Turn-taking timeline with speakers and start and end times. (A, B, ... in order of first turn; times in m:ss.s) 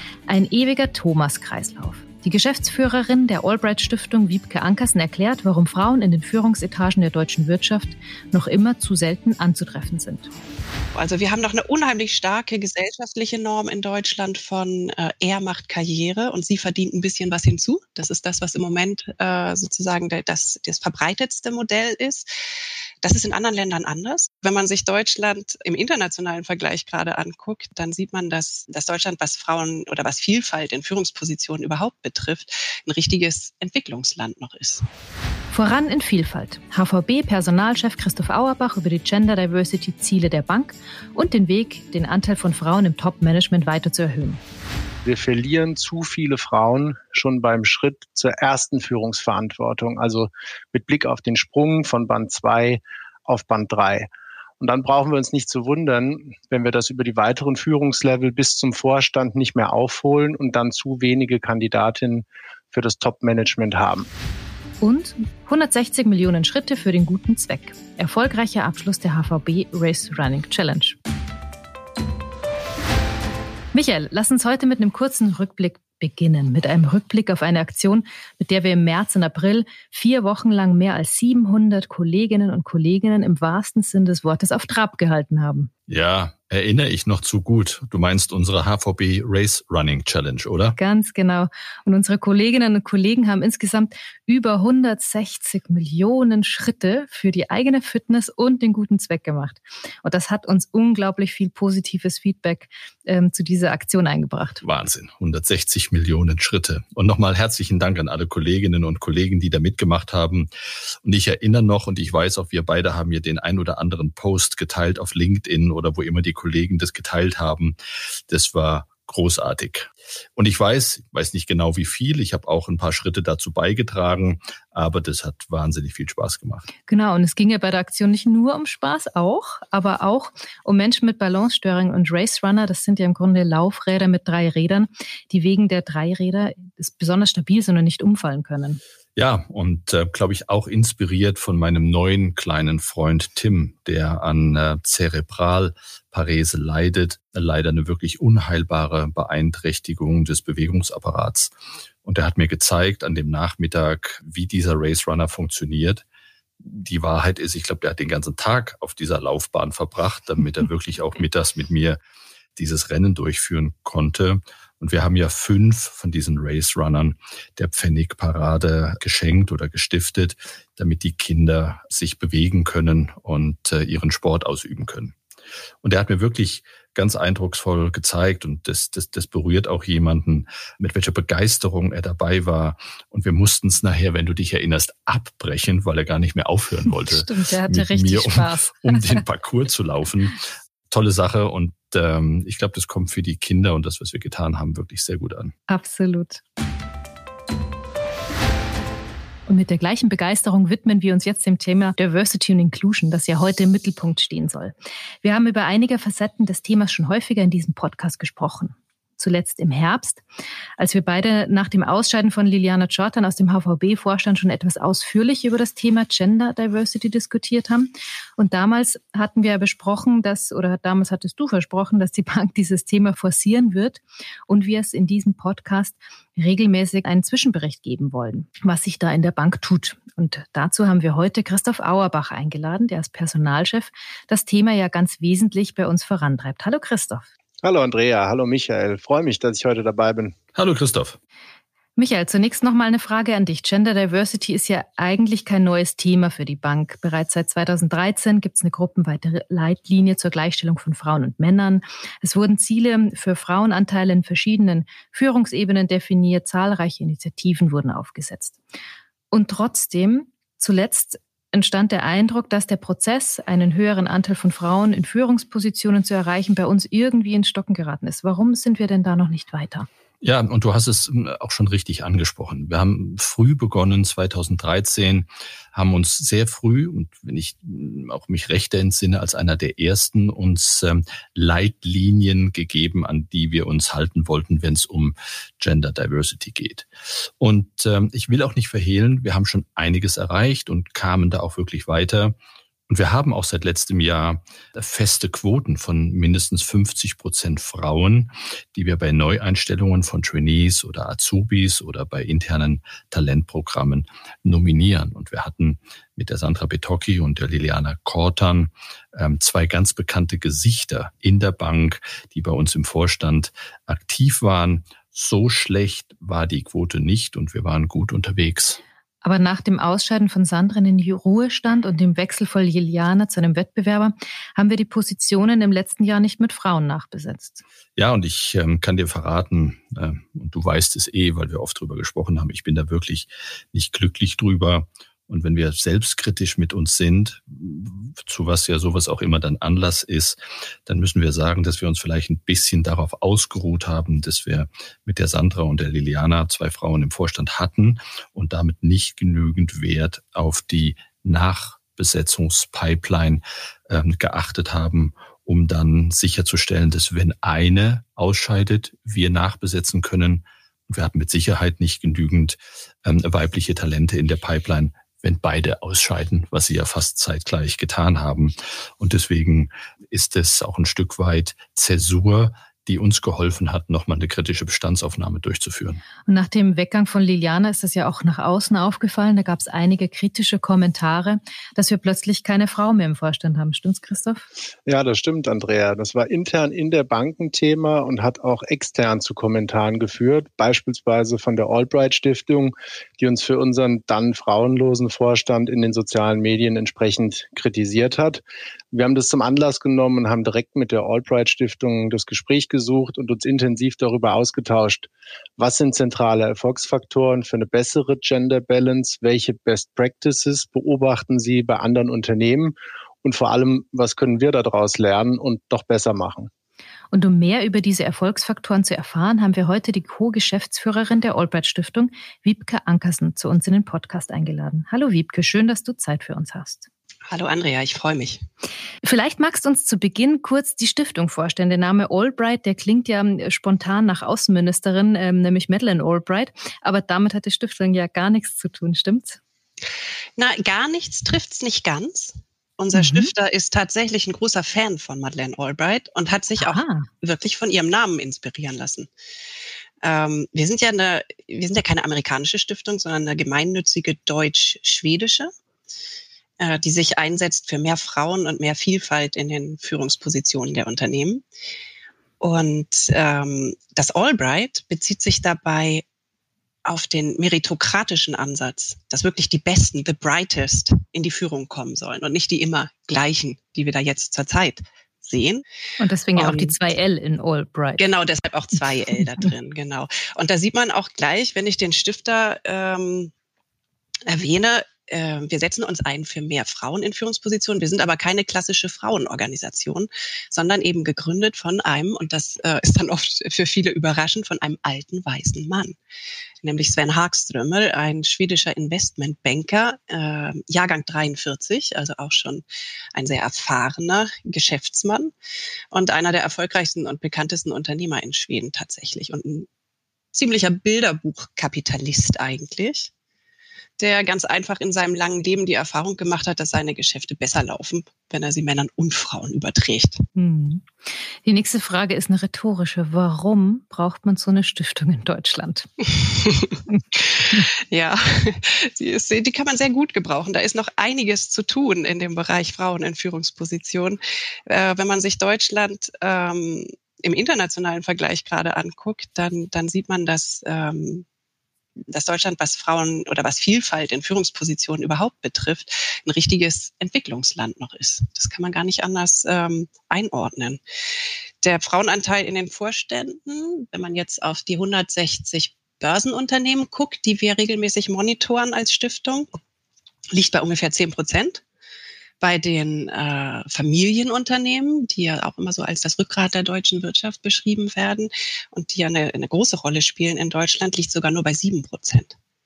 0:00.3-0:10.3 A
0:11.0-0:22.3 B
0:23.0-0:34.9 B
0:35.5-0:44.4 A
0:45.0-0:54.1 C
0:54.6-1:04.1 C
1:04.8-1:11.0 A
1:13.7-1:25.7 A
1:25.9-1:30.8 D
1:30.8-1:44.6 A
1:44.6-1:50.5 D
1:51.0-1:57.8 D
1:58.3-2:06.7 D
2:06.9-2:18.8 A
2:19.2-2:31.5 D
2:32.0-2:36.0 D
2:36.6-2:42.0 D
2:42.6-2:55.2 D
2:55.8-3:10.4 D
3:07.1-3:09.0 A
3:10.9-3:15.5 D
3:15.7-3:16.4 A
3:19.5-3:30.2 A
3:30.8-3:57.3 A
3:57.6-4:00.4 C
4:00.6-4:01.2 D
4:02.0-4:18.6 A
4:19.3-4:29.9 A
4:30.2-4:46.9 D
4:47.4-4:52.4 D
4:52.9-5:18.8 D
5:19.2-5:27.6 A
5:28.0-6:16.0 D
6:16.3-6:24.4 A
6:24.9-6:56.5 C
6:57.1-7:06.9 A
7:07.3-7:08.4 B
7:09.0-7:19.4 A
7:20.4-7:29.1 B
7:22.9-7:23.3 A
7:26.6-7:27.1 A
7:30.0-7:35.5 B
7:36.6-7:41.4 B
7:42.4-7:46.0 B
7:46.8-7:55.6 B
7:56.0-7:58.0 A
7:56.4-7:56.8 B
7:58.0-8:03.3 B
8:04.3-8:16.0 B
8:16.6-8:25.3 B
8:25.9-8:29.7 B
8:30.3-8:33.1 B
8:34.0-8:40.2 B
8:40.4-8:45.9 A
8:46.2-9:01.2 B
8:46.9-8:47.7 A
9:02.1-9:10.8 B
9:11.6-9:19.5 B
9:20.3-9:21.6 B
9:22.4-9:32.4 B